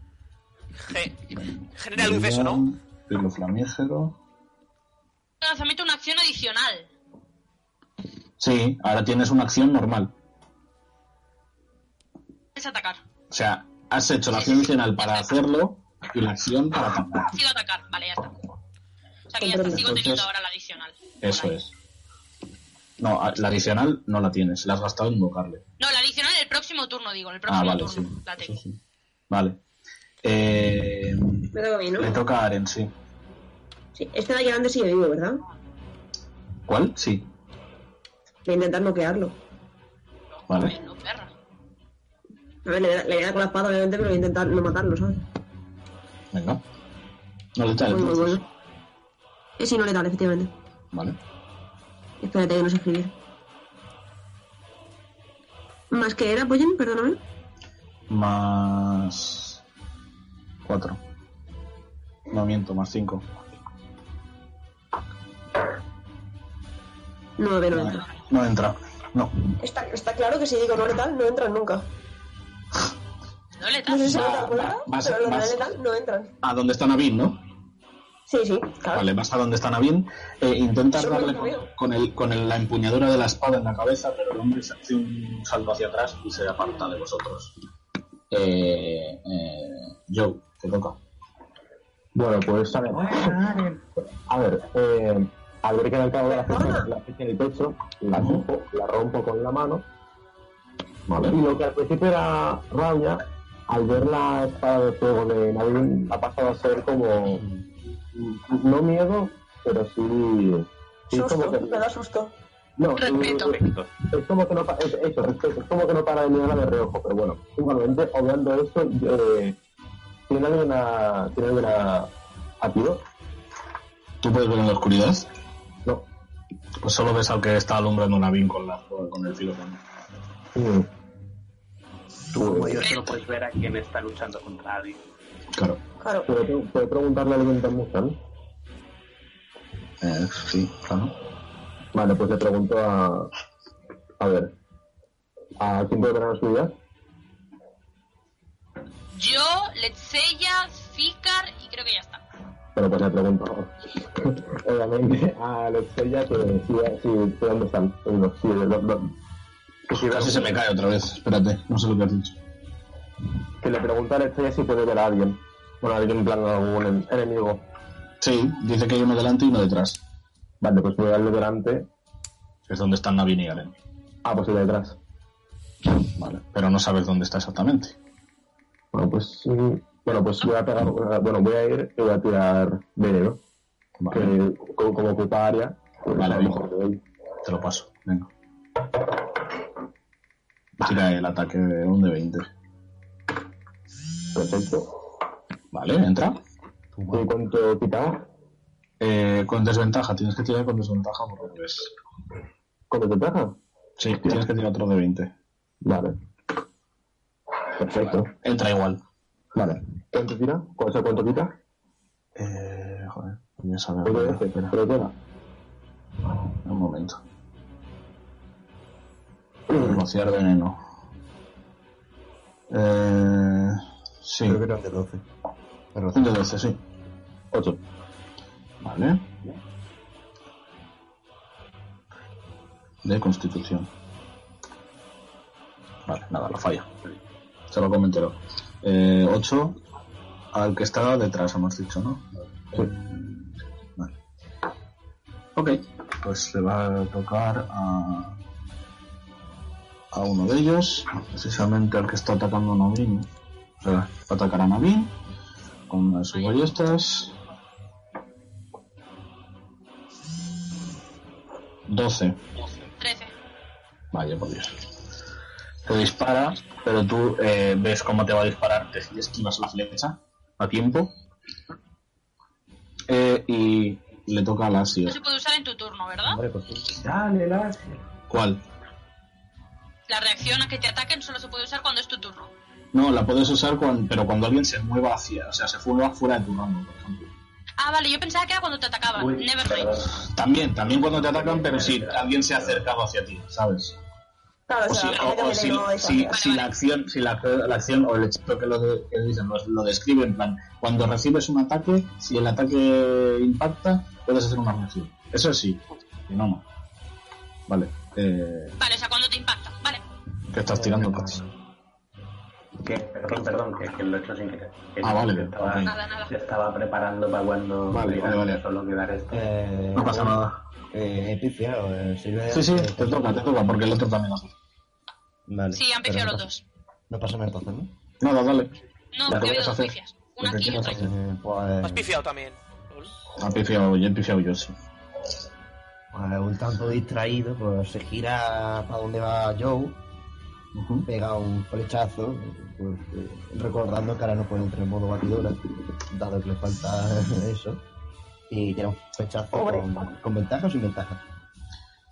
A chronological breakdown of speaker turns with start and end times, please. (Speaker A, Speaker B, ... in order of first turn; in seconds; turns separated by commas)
Speaker A: 0.8-1.2, Speaker B: 1.4-4.2, Speaker A: 1.8-2.7, Speaker C: 5.4-6.9, Speaker B: 8.4-10.1, Speaker C: 12.6-13.0, Speaker B: 13.3-17.3, Speaker C: 14.3-15.4, Speaker C: 17.2-18.4, Speaker C: 19.3-21.6, Speaker D: 19.4-19.9, Speaker B: 19.7-20.3, Speaker B: 21.2-21.7, Speaker B: 23.0-25.6, Speaker C: 25.8-28.6, Speaker B: 27.5-28.8, Speaker B: 29.3-29.6, Speaker B: 30.2-32.9, Speaker D: 31.5-32.2, Speaker D: 34.0-35.4, Speaker B: 36.7-37.3, Speaker D: 38.5-39.4, Speaker C: 40.5-41.3, Speaker B: 40.5-40.7, Speaker D: 42.7-45.2, Speaker B: 46.3-46.6, Speaker B: 47.6-48.5, Speaker D: 47.9-48.4, Speaker D: 49.6-50.5, Speaker B: 50.9-51.2, Speaker D: 52.2-53.1, Speaker D: 55.9-57.2, Speaker B: 58.1-59.6, Speaker B: 60.6-61.0, Speaker B: 62.3-63.3, Speaker D: 67.4-68.1, Speaker B: 67.7-69.3, Speaker D: 69.6-71.9, Speaker C: 73.6-74.3, Speaker D: 73.9-76.3, Speaker B: 74.0-75.7, Speaker B: 76.4-77.4, Speaker D: 78.3-79.1, Speaker B: 78.9-87.5, Speaker D: 81.0-81.7, Speaker B: 88.3-91.0, Speaker E: 92.2-93.4, Speaker F: 92.9-93.8, Speaker E: 94.3-99.8, Speaker D: 96.3-96.9, Speaker B: 98.2-98.4, Speaker B: 101.1-101.4, Speaker E: 101.2-107.4, Speaker E: 108.2-111.8, Speaker D: 111.1-112.3, Speaker E: 112.8-113.5, Speaker C: 113.0-113.6, Speaker F: 113.4-113.9, Speaker E: 114.1-119.6, Speaker E: 120.3-122.1, Speaker E: 122.6-123.0, Speaker B: 124.2-125.3, Speaker B: 126.8-129.8, Speaker E: 130.6-130.9, Speaker F: 132.3-135.0, Speaker E: 132.4-132.9, Speaker C: 132.8-133.2, Speaker B: 135.6-135.8, Speaker D: 136.0-136.4, Speaker E: 136.3-138.2, Speaker B: 140.0-141.1, Speaker E: 141.9-143.3, Speaker E: 144.2-144.5, Speaker E: 145.6-146.7, Speaker C: 149.1-152.2, Speaker E: 152.8-159.1, Speaker E: 159.9-160.6, Speaker B: 159.9-162.4, Speaker E: 163.6-167.6, Speaker B: 168.2-170.0, Speaker E: 170.6-171.9, Speaker B: 172.7-173.7, Speaker E: 174.2-175.0, Speaker B: 176.2-178.0, Speaker E: 178.9-183.4, Speaker B: 184.0-184.3, Speaker E: 184.1-187.0, Speaker B: 186.2-186.6, Speaker B: 187.4-188.3, Speaker B: 190.8-192.5, Speaker E: 194.3-194.9, Speaker B: 195.7-196.4, Speaker G: 196.9-197.3, Speaker E: 197.1-198.2, Speaker B: 199.0-201.9, Speaker E: 202.9-203.6, Speaker B: 204.0-205.3, Speaker E: 205.8-206.2, Speaker E: 207.7-208.3, Speaker B: 208.3-209.0, Speaker E: 209.6-211.5, Speaker B: 212.4-214.8, Speaker E: 214.0-215.1, Speaker B: 216.6-217.2, Speaker E: 219.7-220.0, Speaker B: 219.7-220.8, Speaker B: 222.7-224.6, Speaker G: 224.4-225.2, Speaker G: 225.9-226.4, Speaker B: 226.1-226.8, Speaker E: 227.5-227.8, Speaker B: 228.8-229.3, Speaker B: 233.0-233.9, Speaker B: 236.1-236.9, Speaker B: 237.7-239.8, Speaker B: 240.5-244.1, Speaker B: 245.6-248.4, Speaker B: 250.1-253.3, Speaker B: 253.8-255.2, Speaker B: 255.9-257.3, Speaker C: 256.3-256.7, Speaker B: 261.9-262.4, Speaker C: 263.0-263.3, Speaker B: 264.1-264.8, Speaker B: 265.9-271.1, Speaker B: 273.1-275.2, Speaker C: 275.1-276.4, Speaker G: 276.2-276.9, Speaker F: 276.9-278.0, Speaker B: 278.3-278.6, Speaker C: 280.1-282.5, Speaker B: 282.9-287.3, Speaker C: 287.8-290.0, Speaker F: 289.1-290.1, Speaker B: 290.3-294.0, Speaker F: 290.8-292.9, Speaker D: 294.7-296.4, Speaker B: 294.9-306.6, Speaker C: 296.3-296.7, Speaker B: 307.7-308.8, Speaker C: 308.8-310.0, Speaker B: 310.5-311.4, Speaker G: 310.7-311.5, Speaker F: 312.8-319.6, Speaker B: 315.0-315.9, Speaker C: 315.8-316.4, Speaker B: 317.9-318.6, Speaker G: 319.3-320.4, Speaker B: 319.9-320.6, Speaker G: 320.9-323.6, Speaker B: 322.5-324.5, Speaker G: 325.5-326.5, Speaker C: 325.7-326.6, Speaker G: 327.1-327.9, Speaker B: 328.2-328.7, Speaker C: 329.1-331.1, Speaker B: 329.3-331.1, Speaker G: 330.9-332.1, Speaker A: 331.8-333.1, Speaker B: 333.4-334.8, Speaker G: 336.1-340.0, Speaker B: 340.8-341.1, Speaker G: 341.1-347.8, Speaker G: 348.5-351.2, Speaker D: 349.5-350.1